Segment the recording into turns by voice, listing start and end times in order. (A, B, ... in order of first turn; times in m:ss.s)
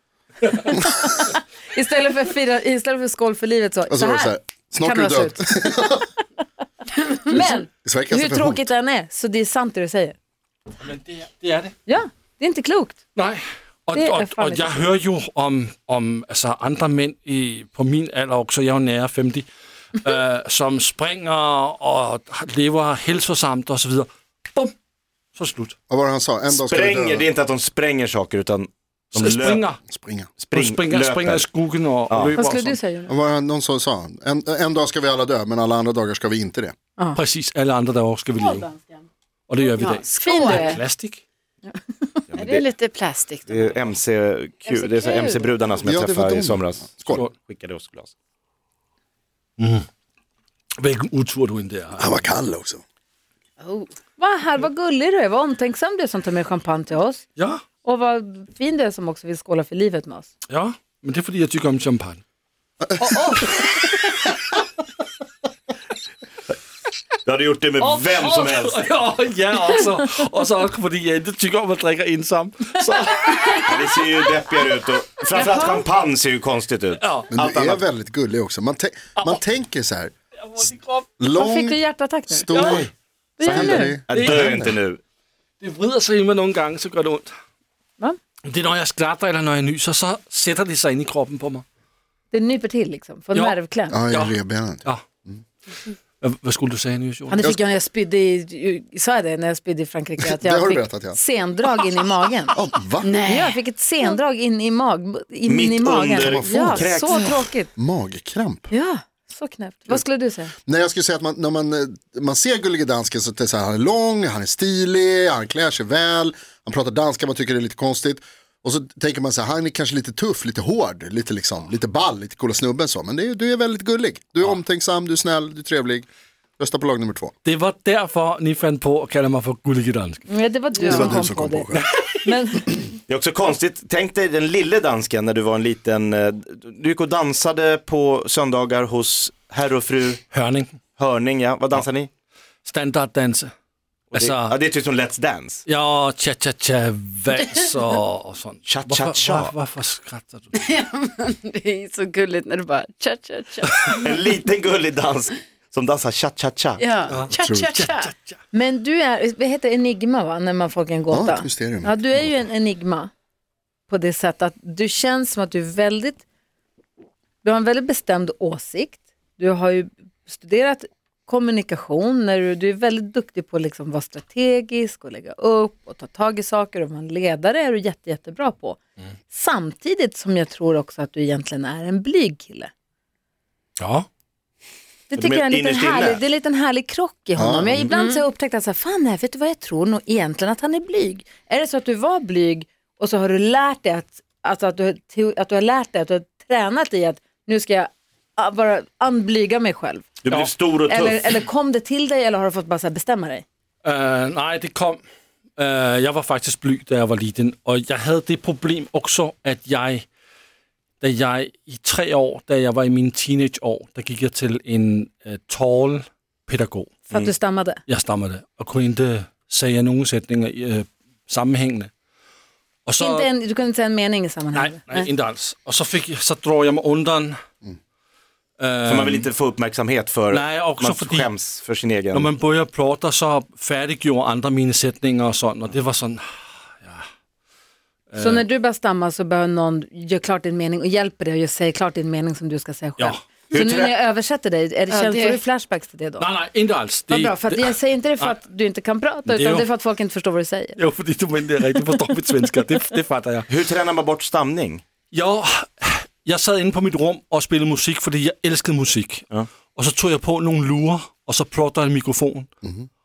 0:00.6-0:05.4 A
0:03.9-0:06.1 B
0:07.0-0:10.2 A
0:07.3-0:08.6 B
0:10.8-0:11.7 C
0:11.9-0:13.0 A
0:13.2-0:24.7 C
0:13.9-0:14.9 A
0:25.3-0:25.7 C
0:25.9-0:27.3 B
0:26.5-0:29.6 D
0:29.1-0:29.8 C
0:29.9-0:30.3 B
0:30.4-0:31.4 D
0:30.5-0:32.8 C
0:32.1-0:32.4 D
0:32.4-0:33.1 A
0:33.1-0:36.7 B
0:37.2-0:38.7 C
0:39.5-0:41.2 C
0:39.6-0:40.8 E
0:40.1-0:40.8 A
0:41.7-0:42.2 A
0:42.3-0:42.7 D
0:42.3-0:43.9 E
0:43.5-0:48.1 D
0:44.7-0:45.5 E
0:45.0-0:45.4 A
0:45.8-0:47.2 B
0:49.6-0:49.8 C
0:50.8-0:52.1 C
0:52.0-0:52.8 B
0:53.6-0:53.9 E
0:54.2-0:57.2 A
0:57.4-0:57.6 C
0:57.8-1:00.3 A
1:00.5-1:02.2 C
1:02.8-1:03.5 B
1:03.0-1:03.7 A
1:07.2-1:08.8 D
1:07.8-1:13.7 C
1:13.6-1:17.8 D
1:15.3-1:15.7 C
1:15.3-1:15.8 A
1:17.0-1:17.3 C
1:17.3-1:20.1 B
1:20.5-1:21.0 C
1:21.2-1:24.7 B
1:21.3-1:22.6 A
1:22.5-1:22.9 C
1:23.4-1:24.0 A
1:23.4-1:24.6 C
1:23.6-1:25.0 D
1:25.6-1:27.3 C
1:28.4-1:31.6 C
1:32.3-1:34.0 A
1:33.9-1:35.4 B
1:34.1-1:35.0 C
1:36.2-1:37.5 C
1:37.3-1:42.6 A
1:40.3-1:41.2 B
1:42.5-1:43.2 B
1:43.0-1:43.6 E
1:43.2-1:47.7 A
1:45.5-1:47.4 D
1:46.1-1:48.7 B
1:48.7-1:50.5 A
1:50.6-2:06.0 B
2:06.6-2:07.3 B
2:07.4-2:10.2 C
2:10.3-2:11.7 A
2:10.8-2:11.0 E
2:10.8-2:11.9 B
2:11.7-2:12.3 C
2:12.2-2:12.8 A
2:13.1-2:20.2 D
2:20.3-2:20.7 C
2:21.0-2:22.1 D
2:22.6-2:23.5 C
2:24.1-2:24.5 C
2:24.1-2:25.6 D
2:25.7-2:30.5 C
2:28.6-2:29.5 D
2:30.5-2:34.1 E
2:34.0-2:36.9 D
2:36.8-2:38.1 E
2:37.1-2:38.4 C
2:37.4-2:37.8 B
2:38.5-2:43.1 A
2:41.1-2:42.5 B
2:43.9-2:46.2 A
2:47.4-2:58.8 A
2:59.3-3:02.7 A
3:03.8-3:04.1 C
3:05.1-3:20.0 A
3:05.1-3:06.2 D
3:07.4-3:07.7 B
3:07.9-3:08.2 E
3:20.2-3:21.3 D
3:20.9-3:23.4 A
3:23.8-3:25.0 C
3:25.6-3:30.0 C
3:31.0-3:37.0 C
3:37.1-3:37.8 A
3:37.9-3:41.9 C
3:42.8-3:43.3 C
3:43.0-3:45.1 A
3:44.5-3:47.4 C
3:48.6-3:49.3 C
3:48.8-3:52.3 D
3:50.3-3:51.3 C
3:52.1-3:56.2 C
3:58.1-3:58.4 C
3:58.2-4:06.3 A
4:03.0-4:03.2 C
4:03.5-4:03.9 D
4:04.9-4:05.4 E
4:06.2-4:08.4 C
4:07.1-4:10.8 A
4:09.2-4:09.7 C
4:10.8-4:13.5 C
4:13.5-4:14.8 D
4:15.1-4:22.5 C
4:22.6-4:22.9 B